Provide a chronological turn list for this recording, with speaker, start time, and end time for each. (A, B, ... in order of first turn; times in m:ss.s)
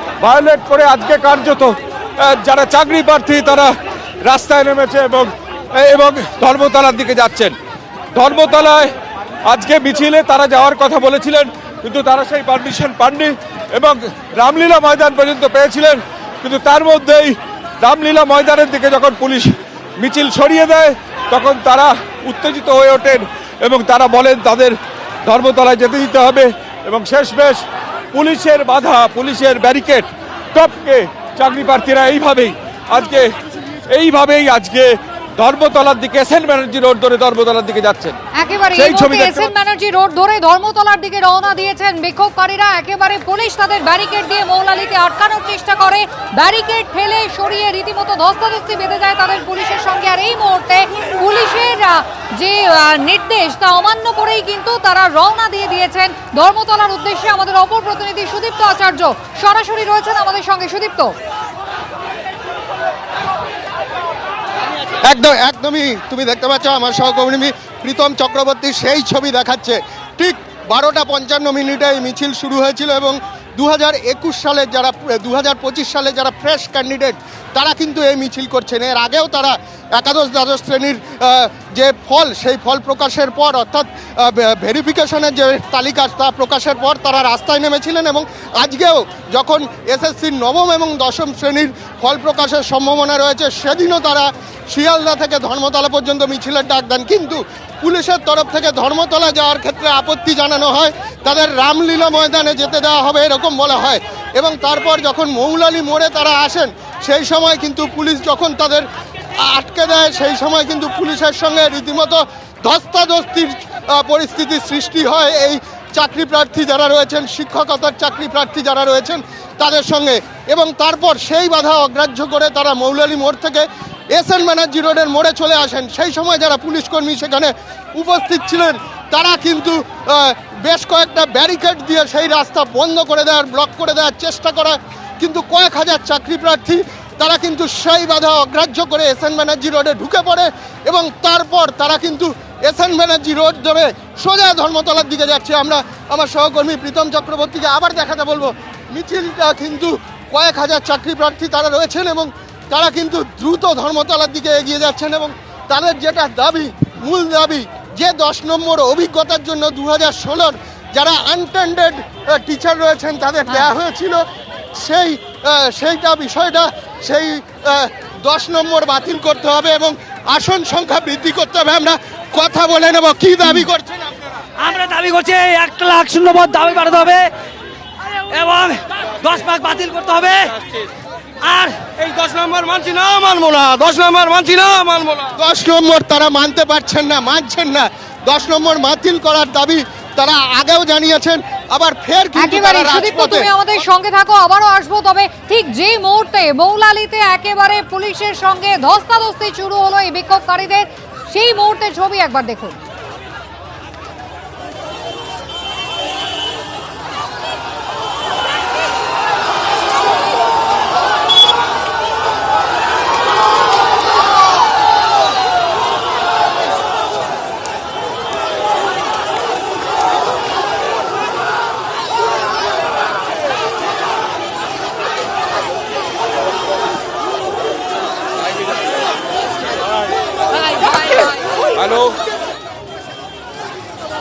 0:00.2-0:03.7 A
0:04.2-0:07.6 A
0:08.2-0:08.9 A
0:09.5-0:33.3 A
0:33.9-0:38.2 A
0:38.4-1:01.2 B
0:38.8-0:39.5 A
1:05.0-1:48.9 C
1:49.4-2:44.2 C
2:44.8-2:54.0 C
2:54.6-2:57.3 D
2:58.3-3:00.6 D
3:01.4-3:05.2 D
3:02.0-3:03.3 E
3:04.2-3:05.3 E
3:05.4-3:13.5 C
3:12.4-3:22.8 B
3:51.8-3:52.2 A